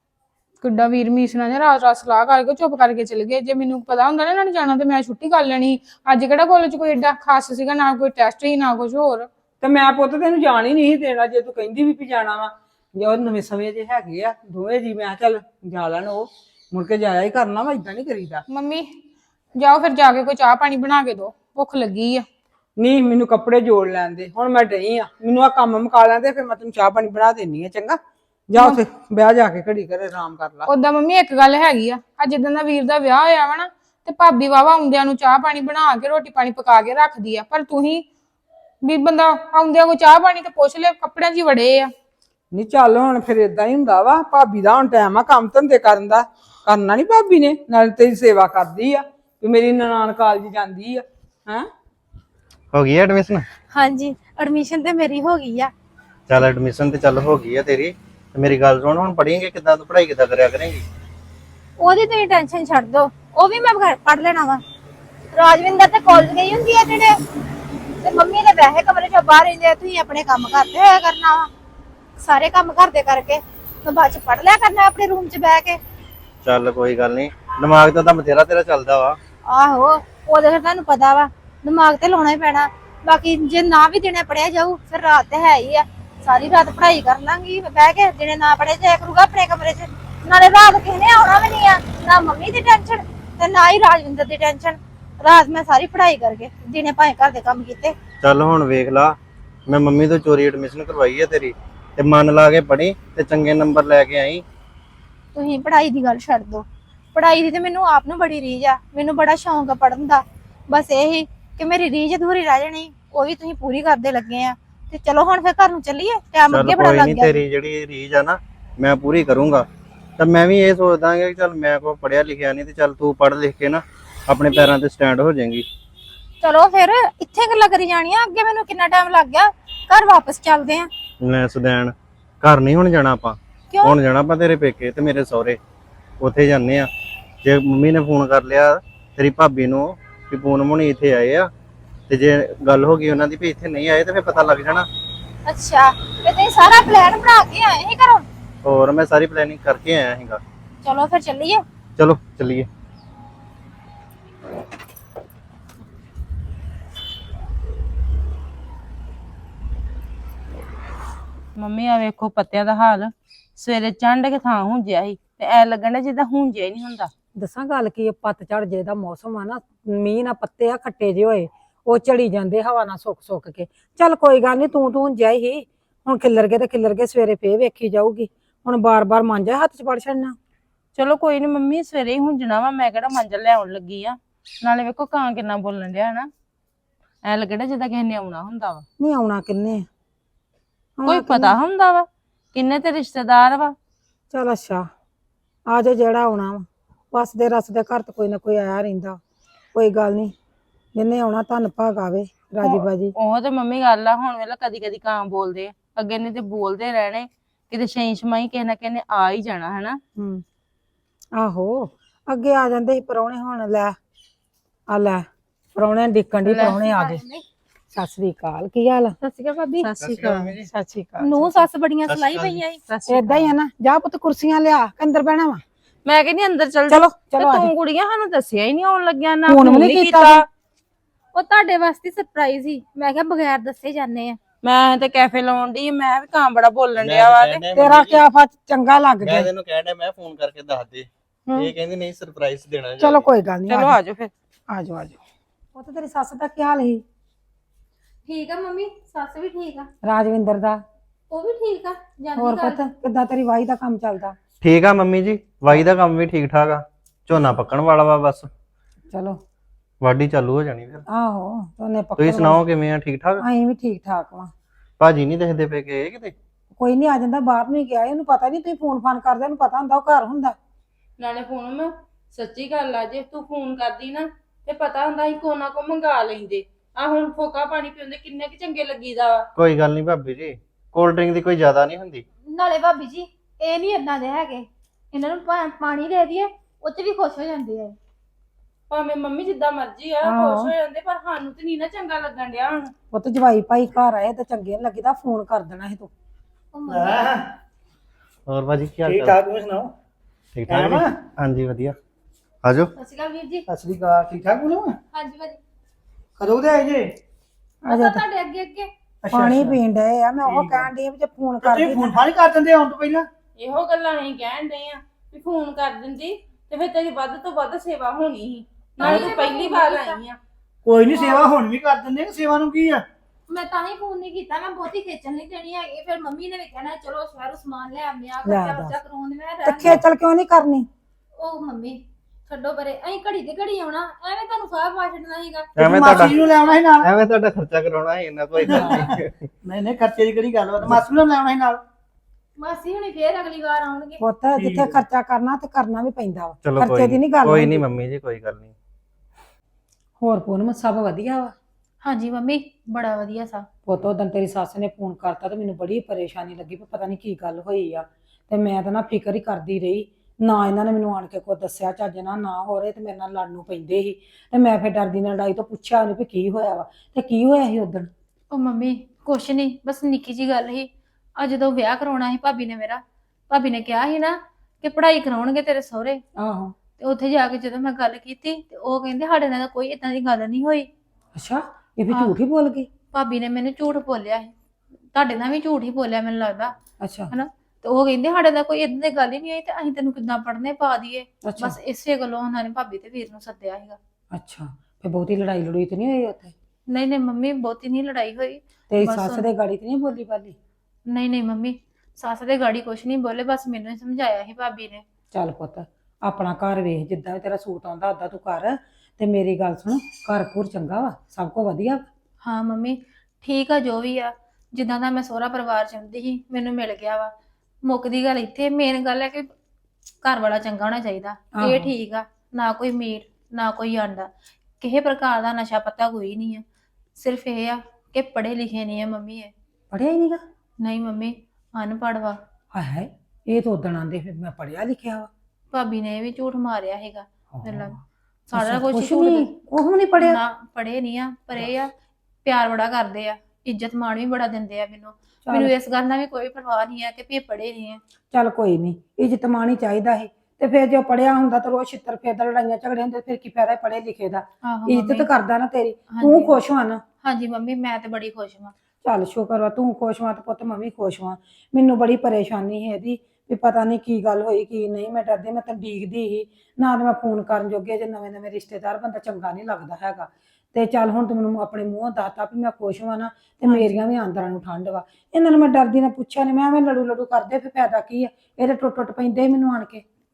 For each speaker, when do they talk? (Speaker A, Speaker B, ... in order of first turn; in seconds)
Speaker A: 0.6-9.3, 18.5-18.9, 19.6-22.2, 30.7-38.0, 38.8-41.9
Speaker B: 9.6-18.4, 22.8-28.0, 28.5-30.7, 42.5-51.6
Speaker C: 9.6-10.0, 167.3-180.4, 189.0-189.9, 191.0-191.6, 194.3-194.9, 195.7-199.2, 199.7-200.3, 200.9-203.1, 210.2-210.4, 211.3-213.9, 214.9-217.2, 217.9-219.1, 220.6-221.7, 223.1-225.6, 226.9-227.7, 229.4-230.4, 237.7-239.5, 243.0-244.0, 244.7-245.2, 245.7-247.0, 250.0-250.8, 252.3-254.4, 259.1-259.4, 261.1-262.6, 263.4-264.5, 266.7-270.6, 290.2-290.7, 293.1-296.1, 307.8-308.2, 309.3-312.2, 328.4-328.9, 329.6-330.9, 338.7-339.0, 344.2-347.8, 350.2-351.5, 353.9-368.1, 376.4-376.7, 381.3-382.9, 387.0-387.3, 391.4-391.8, 394.3-396.5, 398.9-400.6, 405.3-412.0, 421.6-421.9, 429.9-430.4, 432.7-435.3, 437.6-437.9, 438.5-440.4, 445.4-445.7, 448.3-457.0, 459.0-480.0
Speaker D: 52.7-53.5, 56.3-60.8, 76.4-79.2, 98.2-104.4, 116.5-119.7, 120.2-125.7, 131.2-135.6, 136.2-136.9, 137.4-141.5, 142.1-144.9, 148.6-150.4, 152.0-152.7, 220.0-220.7, 222.1-222.6, 237.0-238.2, 239.2-243.3, 254.6-258.5, 260.0-261.0, 262.2-263.4, 265.0-266.3, 279.6-282.2, 298.5-299.4, 300.5-301.9, 302.6-302.9, 335.8-336.4, 337.0-339.5, 346.6-348.7
Speaker E: 53.7-55.7, 61.8-64.6, 65.3-67.2, 68.0-71.5, 72.2-75.8, 79.5-97.9, 105.3-117.4, 126.4-130.9, 145.4-148.2, 150.8-151.6, 216.6-217.4, 219.2-219.9, 221.2-222.8, 231.3-234.4, 248.2-249.9, 251.3-252.8, 282.5-287.9, 296.7-297.2, 302.9-303.6, 305.1-305.6, 307.9-308.9, 319.0-320.2, 321.1-321.5, 323.5-330.0, 331.4-336.8, 342.6-344.2, 352.0-353.7, 368.5-376.2, 377.0-380.9, 383.1-384.5, 385.1-386.7, 387.3-394.0, 396.9-399.4, 401.1-405.0, 412.4-417.3, 417.8-419.5, 420.2-426.6, 427.2-429.5, 430.8-432.4, 435.7-437.9, 438.5-439.5, 440.2-441.9, 442.4-448.0, 454.6-455.3, 456.1-456.5, 457.2-458.7, 473.6-473.9
Speaker F: 161.6-167.1, 180.9-186.3, 187.2-188.8, 191.1-193.8, 202.6-210.0, 219.8-220.3, 222.9-223.3, 226.1-230.4, 234.6-237.6, 243.7-244.3, 271.2-279.4, 288.9-292.9, 313.6-320.4
Speaker G: 296.9-297.4, 299.0-299.9, 300.7-301.1, 303.7-305.0, 306.4-307.1, 309.2-309.8, 310.4-310.9, 311.6-313.3, 320.8-323.0, 335.8-337.1, 339.6-341.8, 344.6-344.9